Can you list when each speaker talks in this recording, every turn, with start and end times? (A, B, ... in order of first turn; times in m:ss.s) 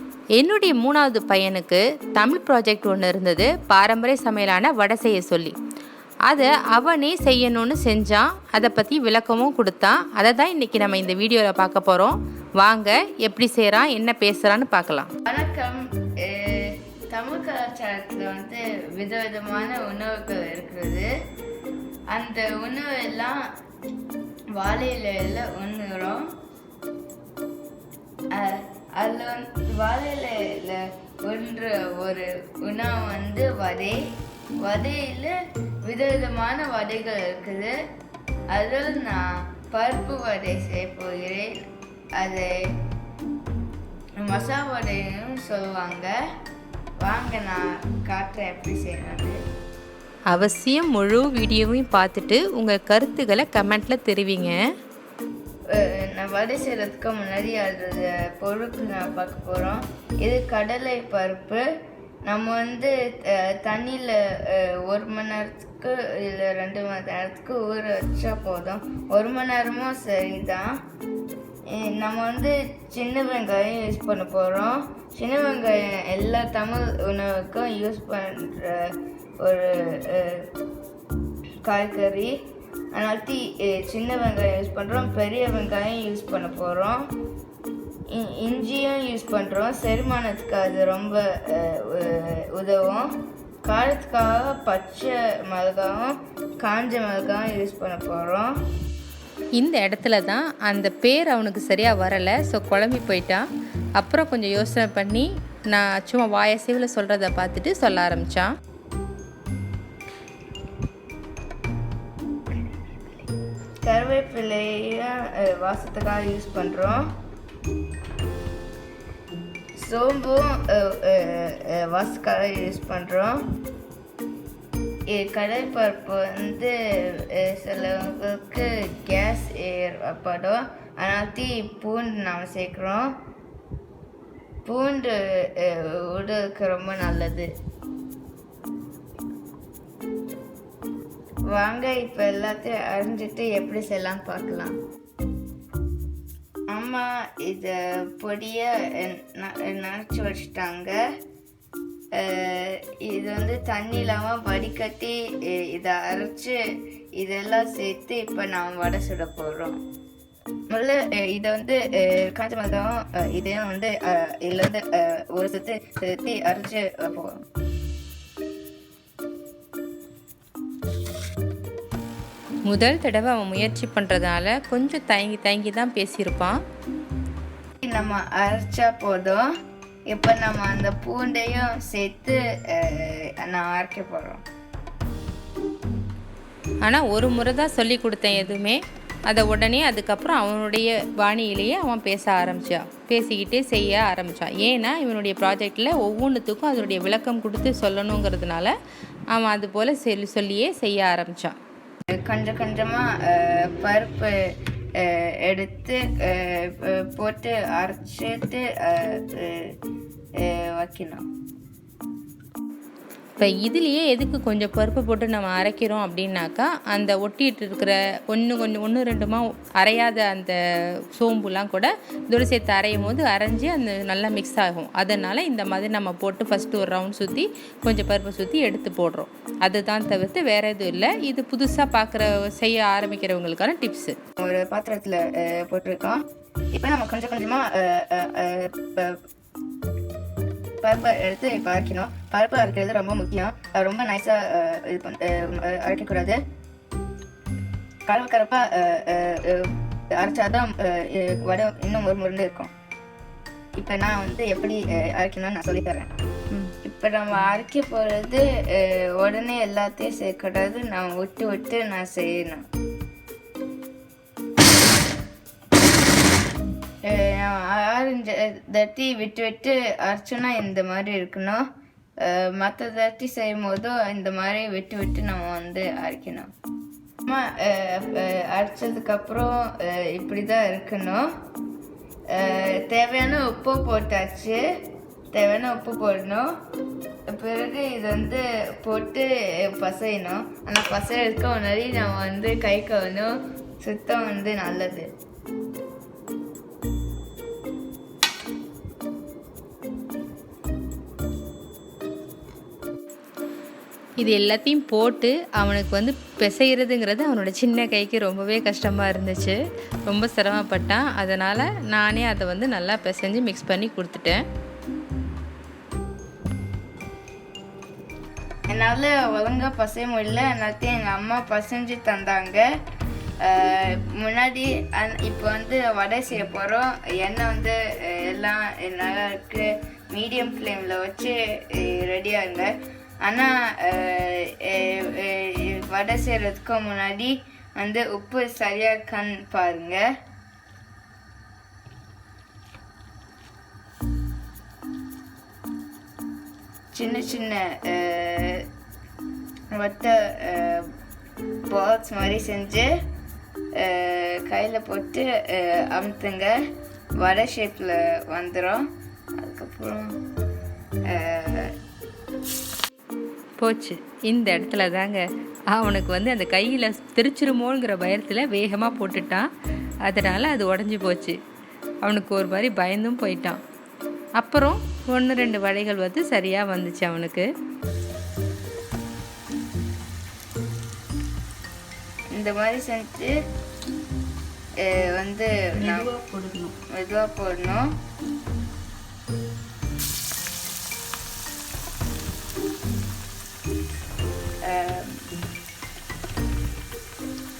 0:00.4-0:05.5 A
0:06.3-0:15.1 A
0:15.3-0:21.1 B
0:22.1-0:23.4 B
0:24.6-0:26.2 B
0:28.3-0:34.0 B
0:34.6-0:35.3 B
0:35.9-0:37.7 B
0:38.5-0:41.6 B
0:42.2-0:42.5 B
0:44.2-0:46.1 B
0:47.0-0:49.4 B
0:50.3-0:54.6 A
0:55.7-1:01.6 B
1:02.2-1:10.8 B
1:11.7-1:20.5 B
1:21.7-1:22.3 B
1:22.9-1:27.1 B
1:28.1-1:33.1 B
1:33.6-1:38.5 B
1:39.6-1:43.4 A
1:44.0-1:48.5 A
1:53.8-1:57.1 B
1:59.8-2:03.4 B
2:05.1-2:13.1 B
2:14.7-2:17.5 B
2:21.5-2:24.8 B
2:26.7-2:31.0 B
2:32.2-2:36.6 B
2:37.2-2:39.8 B
2:40.7-2:47.4 B
2:52.7-2:56.6 A
2:57.8-2:59.4 B
3:00.1-3:04.4 B
3:06.8-3:18.7 A
3:19.3-3:21.6 A
3:22.1-3:24.3 B
3:25.0-3:29.7 B
3:30.4-3:31.2 B
3:33.4-3:40.6 A
3:41.1-3:54.2 A
3:54.4-3:59.2 B
4:00.8-4:06.4 B
4:08.1-4:12.7 B
4:13.8-4:16.1 B
4:16.8-4:22.6 B
4:27.0-4:31.6 B
4:32.2-4:36.5 B
4:37.3-4:41.2 B
4:42.3-4:44.6 B
4:45.3-4:46.5 B
4:47.3-4:55.1 B
5:04.2-5:14.4 A
5:18.7-5:22.6 B
5:23.4-5:32.7 B
5:33.2-5:40.0 B
5:46.9-5:48.6 B
5:49.8-5:50.9 B
5:51.7-5:52.9 B
5:53.8-5:56.5 B
5:57.2-5:58.8 B
5:59.4-6:00.2 B
6:01.1-6:01.7 B
6:03.6-6:09.5 A
6:10.1-6:11.4 A
6:12.0-6:13.6 A
6:14.4-6:17.5 A
6:22.4-6:23.3 B
6:24.8-6:26.1 B
6:25.9-6:26.6 A
6:26.9-6:27.9 B
6:34.7-6:35.3 B